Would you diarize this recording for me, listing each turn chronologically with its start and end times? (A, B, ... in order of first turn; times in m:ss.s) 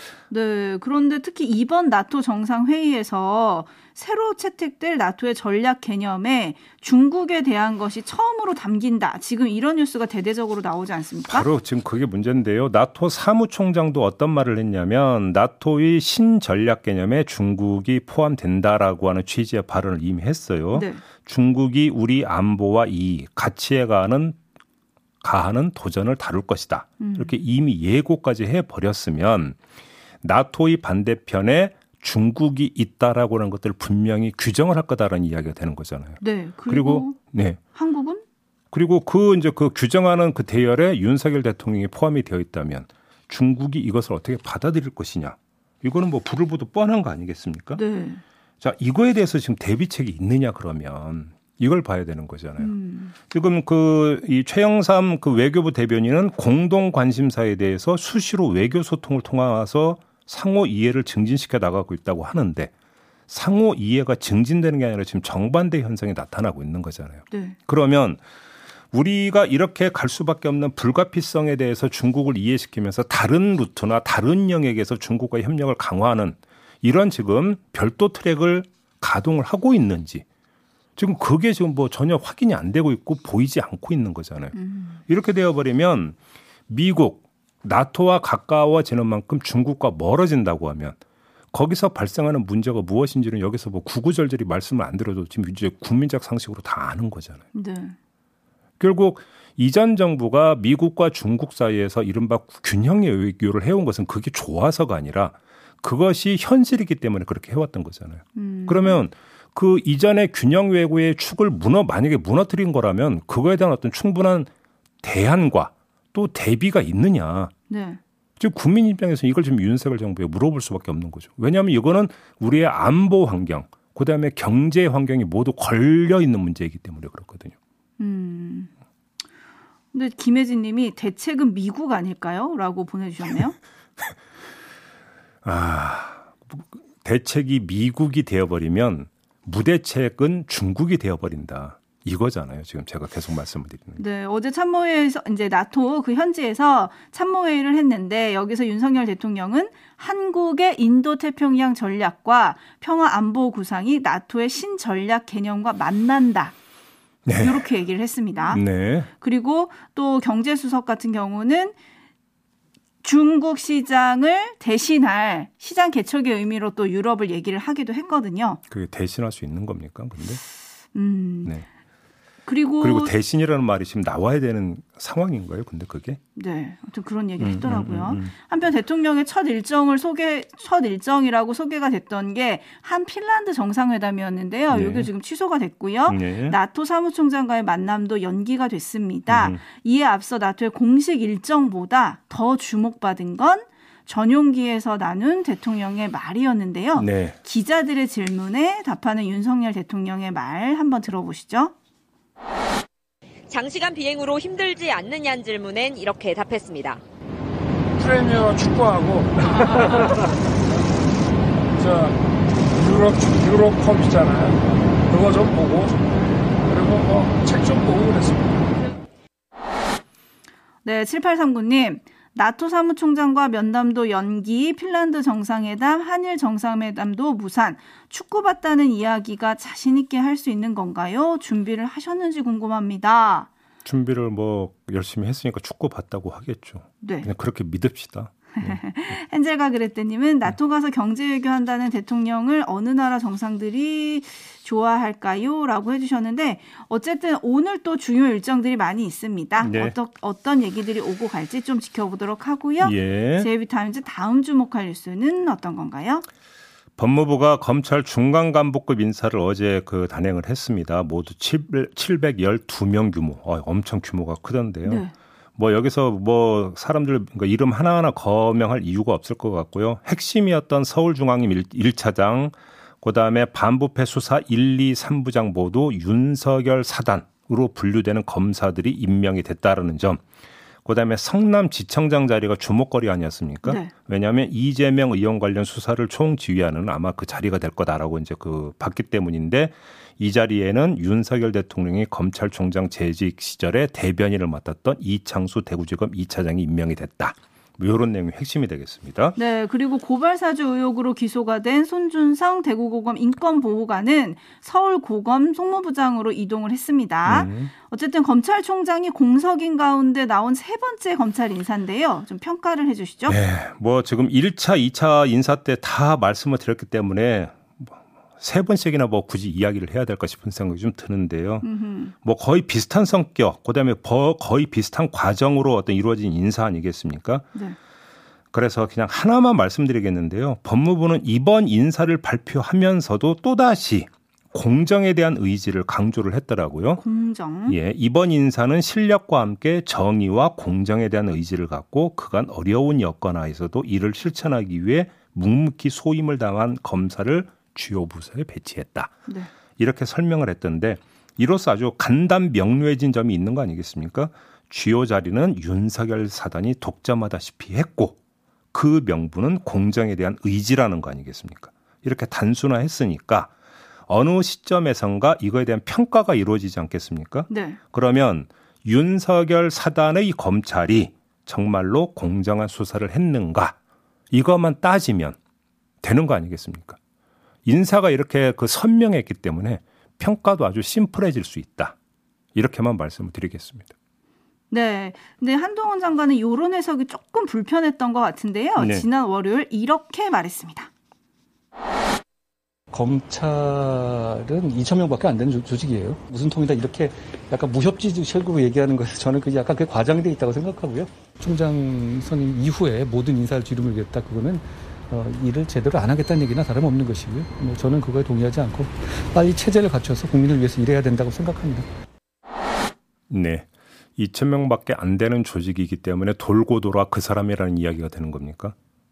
0:00.3-0:11.5 A
0:11.3-0:24.4 B
0:20.7-0:21.0 A
0:25.2-0:29.6 B
0:27.0-0:27.3 A
0:30.2-0:37.6 B
0:36.2-0:37.2 A
0:37.7-0:38.2 A
0:38.7-0:47.8 B
0:47.8-0:48.2 A
0:48.6-0:52.7 B
0:52.6-0:53.1 A
0:53.3-1:02.7 B
1:03.3-1:08.2 B
1:07.3-1:07.6 A
1:08.9-1:20.2 B
1:21.0-1:24.6 B
1:24.6-1:24.9 A
1:25.1-1:26.2 B
1:26.7-1:31.0 B
1:31.5-1:37.4 B
1:37.5-1:38.0 A
1:38.8-1:54.5 B
1:48.3-1:49.0 A
1:55.0-1:57.5 B
1:57.7-1:58.0 A
1:58.4-2:07.5 B
2:08.0-2:08.7 A
2:09.9-2:13.6 A
2:15.4-2:24.0 B
2:24.0-2:36.6 A
2:37.2-2:37.6 B
2:37.4-2:41.7 A
2:38.5-2:39.1 B
2:43.0-2:48.6 A
2:48.7-2:50.4 B
2:50.9-2:51.5 A
2:52.4-2:53.1 A
2:52.8-2:56.2 B
2:56.4-3:21.7 A
2:57.4-2:58.3 B
3:04.7-3:05.1 B
3:06.1-3:06.6 B
3:09.3-3:09.6 B
3:17.0-3:17.4 B
3:23.5-3:27.0 C
3:28.0-3:29.3 D
3:31.8-3:32.1 D
3:32.8-3:34.5 D
3:35.1-3:36.1 D
3:36.7-3:38.5 D
3:40.8-3:53.5 A
3:53.8-3:58.8 B
3:57.0-3:57.3 A
3:58.6-4:16.2 A
4:09.6-4:09.9 B
4:12.8-4:13.5 B
4:17.0-4:25.0 B
4:24.8-4:25.1 A
4:25.6-4:40.2 B
4:40.8-4:59.4 B
4:43.6-4:43.9 A
4:59.4-5:13.4 A
5:07.2-5:07.7 B
5:13.3-5:21.7 B
5:21.6-5:22.1 A
5:22.2-5:27.4 B
5:28.5-5:37.0 B
5:37.0-5:37.8 A
5:37.6-5:49.2 B
5:49.8-5:58.2 B
5:58.7-6:03.5 B
6:04.1-6:13.8 B
6:07.5-6:07.8 A
6:14.3-6:15.4 B
6:16.0-6:17.0 B
6:17.6-6:21.9 B
6:22.5-6:23.9 B
6:24.7-6:30.9 A
6:28.8-6:29.0 B
6:32.9-6:51.8 E
6:53.3-6:58.7 B